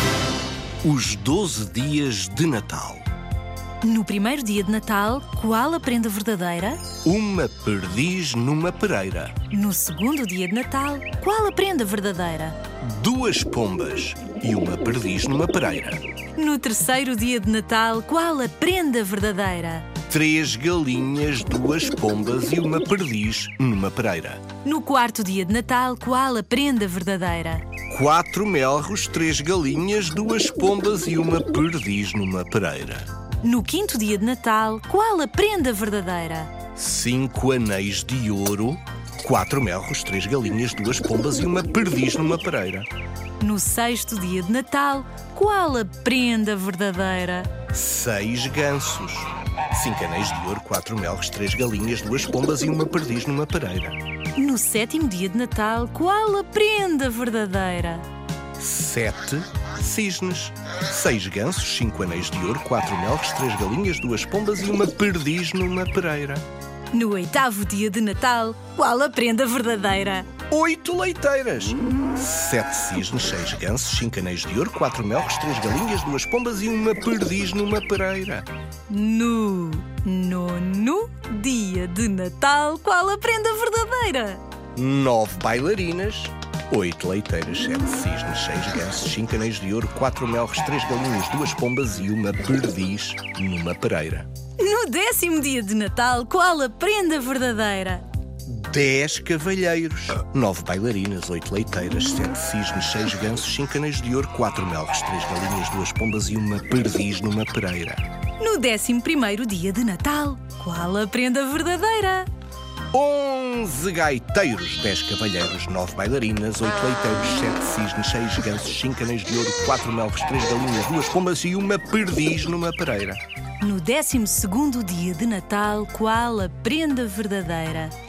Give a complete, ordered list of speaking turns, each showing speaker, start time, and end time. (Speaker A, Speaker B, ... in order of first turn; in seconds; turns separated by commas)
Speaker A: 0.8-3.0, Speaker B: 3.8-6.8, Speaker A: 7.0-9.4, Speaker B: 9.5-12.6, Speaker A: 12.8-16.0, Speaker B: 16.4-19.9, Speaker A: 20.1-24.4, Speaker B: 24.6-27.7, Speaker A: 27.9-33.1, Speaker B: 33.4-36.6, Speaker A: 36.8-42.9, Speaker B: 43.4-47.5, Speaker A: 47.7-54.0, Speaker B: 54.4-58.0, Speaker A: 58.6-66.4, Speaker B: 66.9-70.3, Speaker A: 70.5-78.5, Speaker B: 78.9-84.4, Speaker A: 84.8-94.3, Speaker B: 94.6-98.0, Speaker A: 98.5-108.0, Speaker B: 108.4-112.3, Speaker A: 112.9-123.2, Speaker B: 123.6-127.9